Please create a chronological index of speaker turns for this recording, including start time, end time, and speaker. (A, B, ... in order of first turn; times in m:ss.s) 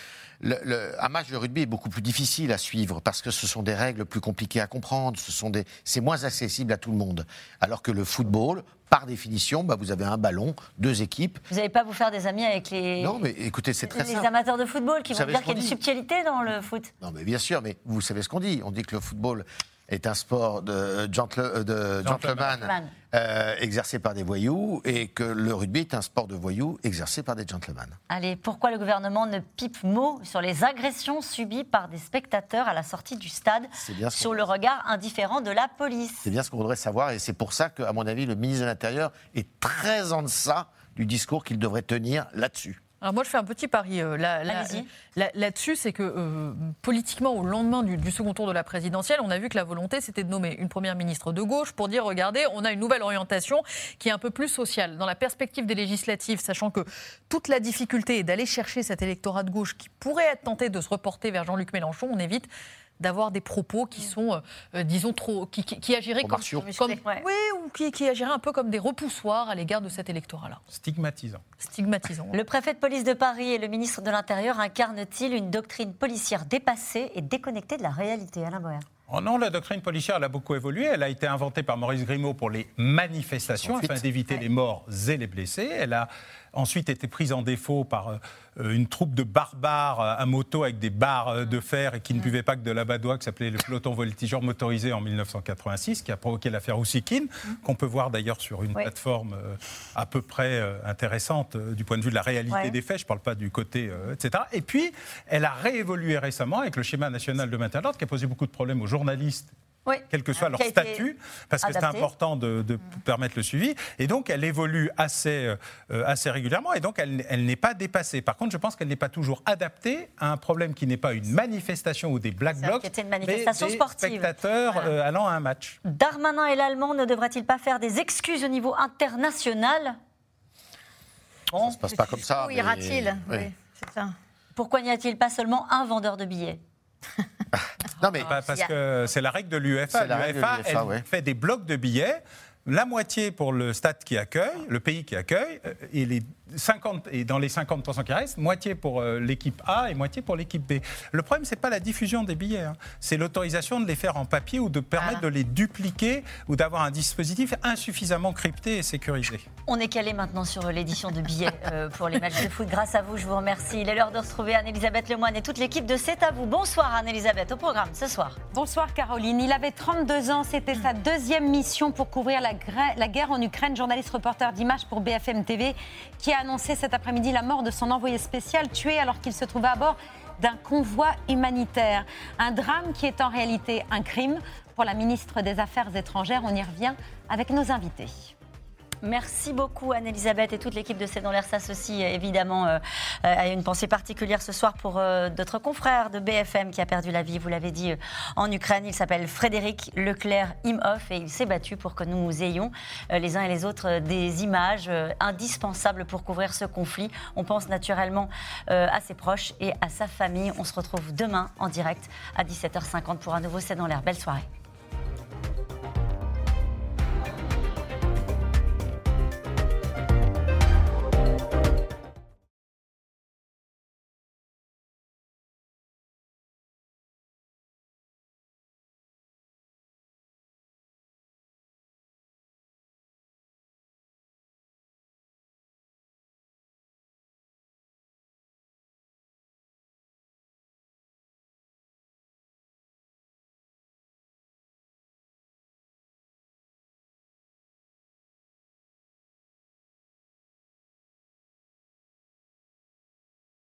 0:00.4-0:11.4 A
0:11.5-0:13.2 B
0:13.0-0:14.3 A
0:13.9-0:16.9 B
0:15.1-0:15.8 A
0:17.0-0:28.0 A
0:22.1-0:22.9 B
0:28.1-0:36.3 B
0:33.8-0:34.5 A
0:36.2-0:42.8 A
0:43.0-1:10.6 C
0:44.5-0:44.9 B
1:06.2-1:06.7 A
1:06.4-1:07.0 D
1:10.7-1:11.5 E
1:11.6-1:12.4 C
1:12.3-1:18.8 B
1:19.1-1:49.5 E
1:23.6-1:24.0 A
1:42.5-1:42.8 B
1:49.9-1:51.1 B
1:50.1-2:05.8 E
1:51.6-1:52.1 B
2:02.6-2:04.9 B
2:05.8-2:10.0 B
2:11.5-2:11.8 B
2:11.6-2:13.5 A
2:12.2-2:14.2 D
2:14.6-2:16.6 B
2:17.6-2:18.3 A
2:18.2-2:39.5 E
2:19.9-2:21.0 A
2:39.7-2:48.4 B
2:48.5-3:08.3 F
3:09.0-3:34.5 B